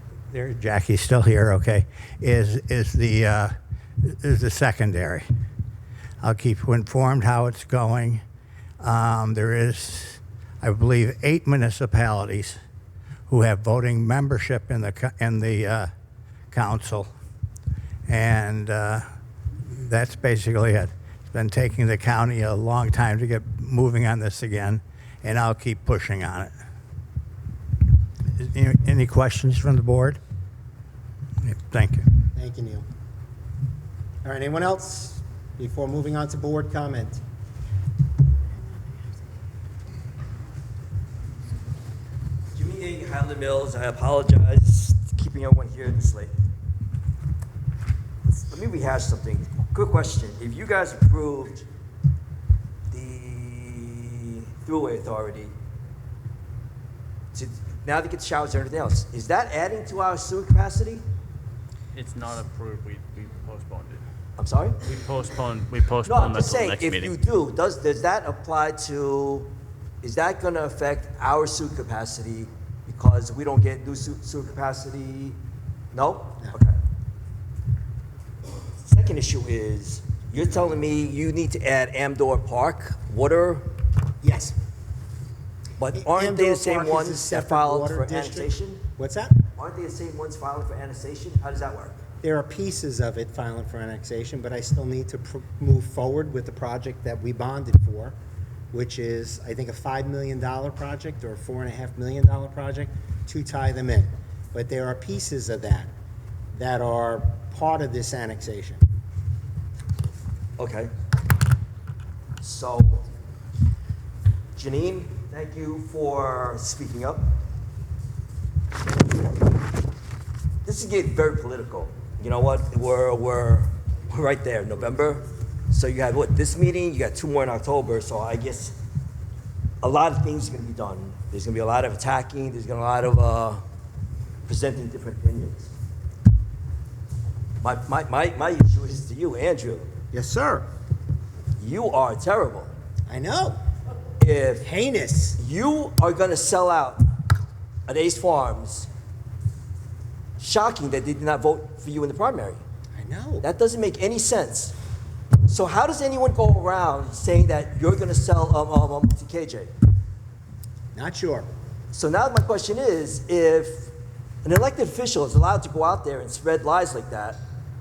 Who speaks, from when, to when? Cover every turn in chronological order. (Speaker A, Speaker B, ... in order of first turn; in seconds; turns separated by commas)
Speaker A: 0.3-5.2, Speaker A: 6.2-8.2, Speaker A: 8.8-12.6, Speaker A: 13.3-15.9, Speaker A: 16.5-17.1, Speaker A: 18.1-19.0, Speaker A: 19.6-26.5, Speaker A: 28.4-30.2, Speaker A: 31.4-32.0, Speaker B: 32.3-32.8, Speaker B: 34.2-37.2, Speaker C: 42.5-46.3, Speaker C: 48.5-51.6, Speaker C: 52.9-55.5, Speaker C: 57.3-61.0, Speaker D: 61.9-64.0, Speaker C: 64.4-64.8, Speaker D: 64.8-67.1, Speaker C: 66.0-69.5, Speaker C: 70.0-75.4, Speaker C: 75.9-76.7, Speaker C: 78.8-83.6, Speaker B: 84.2-84.5, Speaker C: 85.8-88.8, Speaker B: 85.9-89.4, Speaker C: 89.5-92.0, Speaker B: 92.2-98.1, Speaker B: 98.7-105.9, Speaker B: 106.5-108.8, Speaker C: 110.6-110.9, Speaker C: 112.4-113.0, Speaker C: 114.5-117.3, Speaker C: 120.6-128.8, Speaker C: 129.8-133.6, Speaker C: 134.4-135.7, Speaker C: 137.6-139.9, Speaker B: 140.1-140.7, Speaker C: 141.6-142.7, Speaker B: 143.1-143.6, Speaker C: 144.2-144.7, Speaker B: 144.6-145.4, Speaker C: 145.4-147.0, Speaker C: 147.9-148.9, Speaker C: 150.4-152.6, Speaker B: 152.9-153.4, Speaker C: 153.4-154.7, Speaker C: 155.5-159.7, Speaker B: 160.9-161.5, Speaker C: 161.9-163.9, Speaker C: 164.4-167.4